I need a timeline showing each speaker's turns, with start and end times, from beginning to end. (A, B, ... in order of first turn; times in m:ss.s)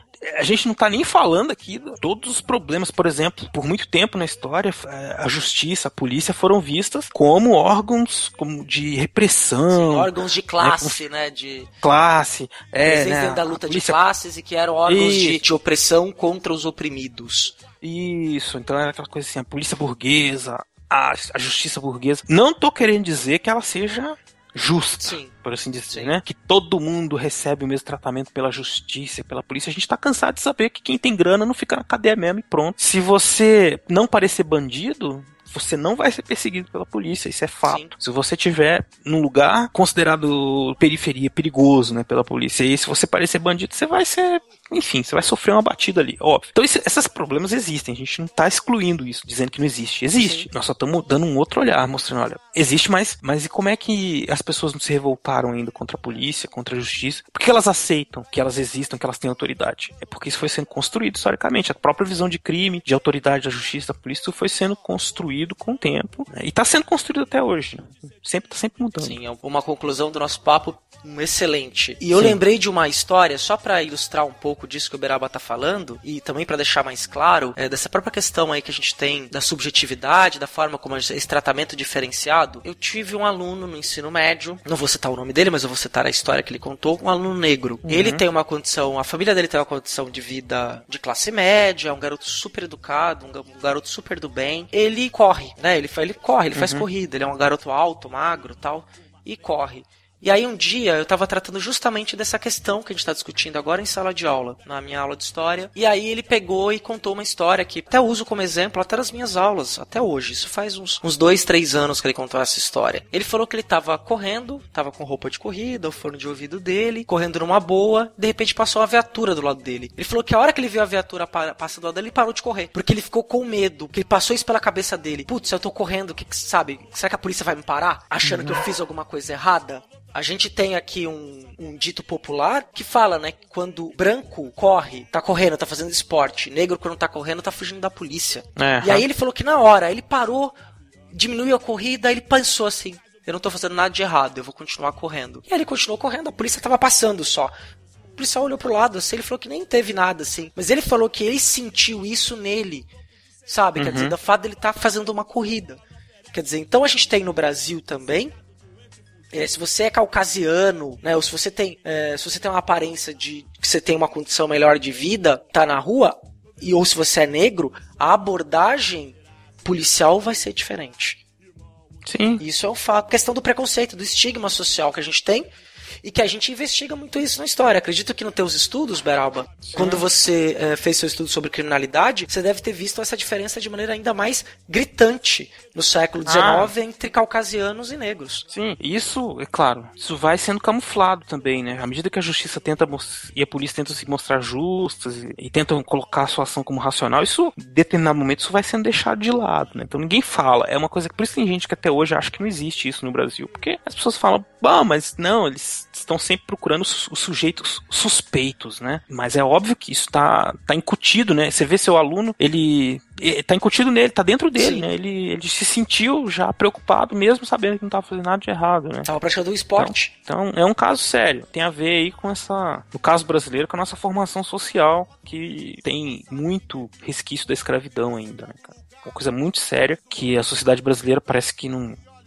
0:00.2-0:11.0 A
0:09.7-0:11.7 B
0:11.8-0:14.0 A
0:12.8-0:17.6 B
0:14.9-0:15.4 A
0:17.8-1:09.2 A
0:25.0-0:25.3 B
0:25.9-0:26.2 B
0:37.7-0:37.9 B
0:50.2-0:50.5 B
1:09.0-2:20.6 B
1:27.9-1:28.2 A
1:36.5-1:36.9 A
2:08.2-2:08.6 A
2:18.6-2:19.0 A
2:21.1-2:27.5 B
2:28.2-2:32.9 B
2:33.5-2:35.8 B
2:33.8-2:34.2 A
2:36.3-2:38.4 B
2:39.3-2:51.2 B
2:52.1-2:52.4 A
2:52.4-2:55.5 B
2:56.0-3:08.5 B
2:59.6-3:00.0 A
3:06.2-3:06.7 A
3:08.5-3:39.1 A
3:34.6-3:34.9 B
3:39.0-3:40.1 B
3:39.8-3:52.0 A